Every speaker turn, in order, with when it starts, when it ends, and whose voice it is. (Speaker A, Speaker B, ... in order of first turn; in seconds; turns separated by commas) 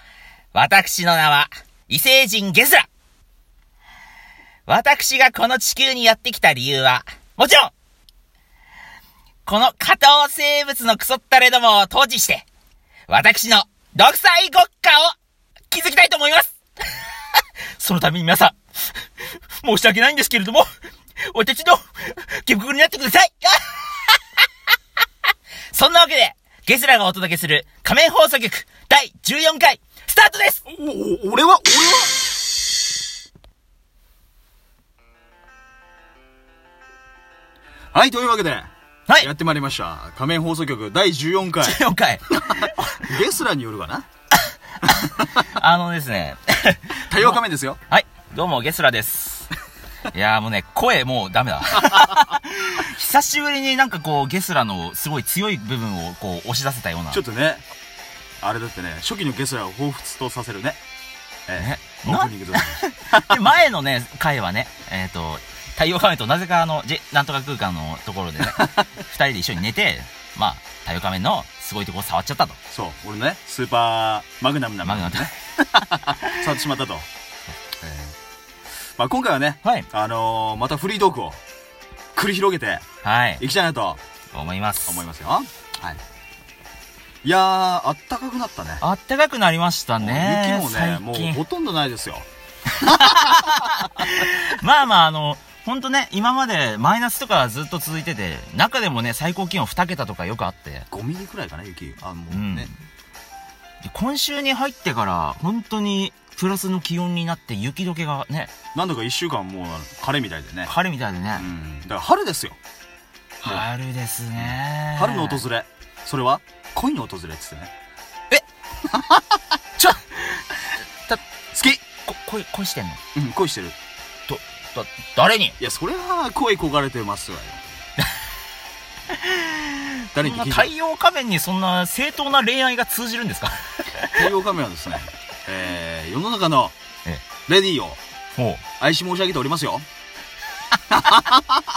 Speaker A: 0.5-2.9, Speaker A: 4.7-7.7, Speaker A: 9.4-12.4, Speaker A: 13.1-15.1, Speaker A: 15.7-16.6, Speaker A: 17.8-18.6, Speaker A: 19.2-20.7, Speaker A: 21.3-24.2, Speaker A: 25.7-30.6, Speaker B: 30.7-32.4, Speaker B: 37.9-44.1, Speaker A: 41.6-43.0, Speaker A: 44.8-49.5, Speaker B: 47.0-47.8, Speaker A: 50.1-57.2, Speaker B: 57.1-57.6, Speaker B: 58.4-60.8, Speaker B: 61.5-63.4, Speaker A: 61.5-72.6, Speaker B: 68.4-68.8, Speaker B: 72.7-77.1, Speaker A: 74.8-75.3, Speaker A: 76.0-76.4, Speaker B: 77.8-78.1, Speaker B: 79.0-81.4, Speaker B: 82.1-82.8, Speaker A: 83.0-83.4, Speaker B: 83.4-84.0, Speaker A: 84.3-85.0, Speaker B: 84.8-86.0, Speaker B: 87.2-88.8, Speaker A: 88.8-91.4, Speaker B: 90.0-92.3, Speaker B: 92.8-93.5, Speaker A: 92.8-100.9, Speaker B: 100.9-102.7, Speaker A: 102.3-102.7, Speaker A: 103.8-108.5, Speaker B: 108.7-110.7, Speaker A: 110.6-111.5, Speaker B: 111.3-112.6, Speaker A: 113.4-115.4, Speaker B: 114.4-117.7, Speaker B: 118.9-119.3, Speaker A: 119.8-120.4, Speaker B: 121.5-121.8, Speaker A: 121.8-123.0, Speaker B: 123.1-123.8, Speaker A: 124.3-125.6, Speaker B: 125.6-127.6, Speaker A: 129.1-134.3, Speaker B: 130.1-130.7, Speaker B: 134.1-136.8, Speaker B: 137.5-138.0, Speaker A: 138.3-138.6, Speaker B: 138.8-139.8, Speaker B: 140.9-141.4